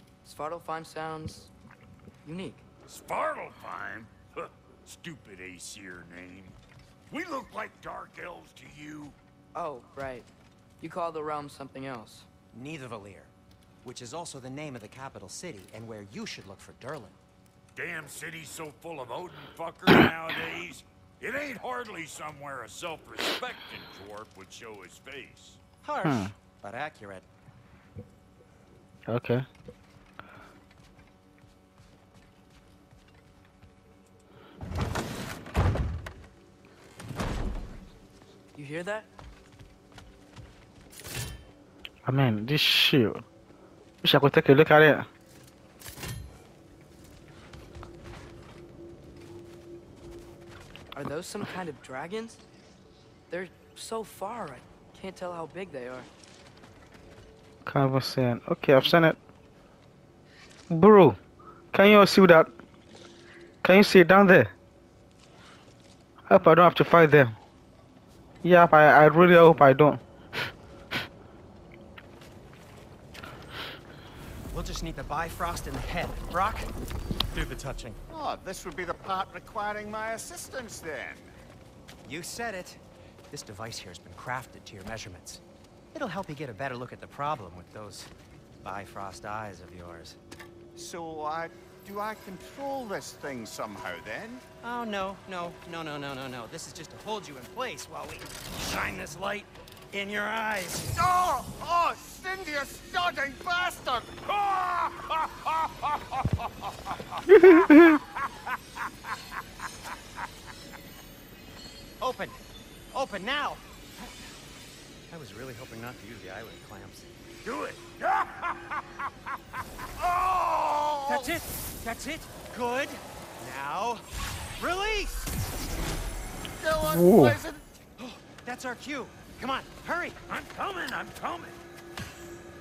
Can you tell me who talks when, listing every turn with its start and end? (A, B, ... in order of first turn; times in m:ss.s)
0:00.2-0:01.5 A
0:02.2-0:02.6 A
0:02.8-0:06.6 B
0:07.1-0:09.2 B
0:09.5-0:10.3 A
0:10.8-0:12.3 A
0:12.5-0:13.3 C
0:13.8-0:17.2 C
0:17.8-0:25.6 B
0:25.8-0:27.2 C
0:26.0-0:26.3 D
0:29.1-0:29.4 D
0:38.5-0:39.1 A
0:42.0-0:43.2 D
0:44.0-0:45.1 D
0:50.9-0:52.4 A
0:53.3-0:56.1 A
0:57.6-0:59.2 D
1:00.7-1:01.2 D
1:01.7-1:02.5 D
1:03.6-1:04.5 D
1:06.3-1:07.4 D
1:08.4-1:10.0 D
1:14.5-1:16.7 C
1:17.3-1:18.0 C
1:18.1-1:21.3 E
1:22.0-1:25.4 C
1:25.9-1:28.1 C
1:28.6-1:30.2 C
1:30.8-1:34.4 E
1:34.6-1:40.9 C
1:40.9-1:44.5 E
1:44.4-1:45.7 B
1:47.3-1:48.0 D
1:52.0-1:52.4 C
1:52.9-1:53.6 C
1:55.1-1:57.1 C
1:57.5-1:58.3 E
2:00.0-2:01.4 E
2:01.0-2:04.0 C
2:04.6-2:05.2 C
2:06.6-2:07.6 E
2:06.8-2:07.4 D
2:08.0-2:10.2 C
2:10.3-2:11.3 B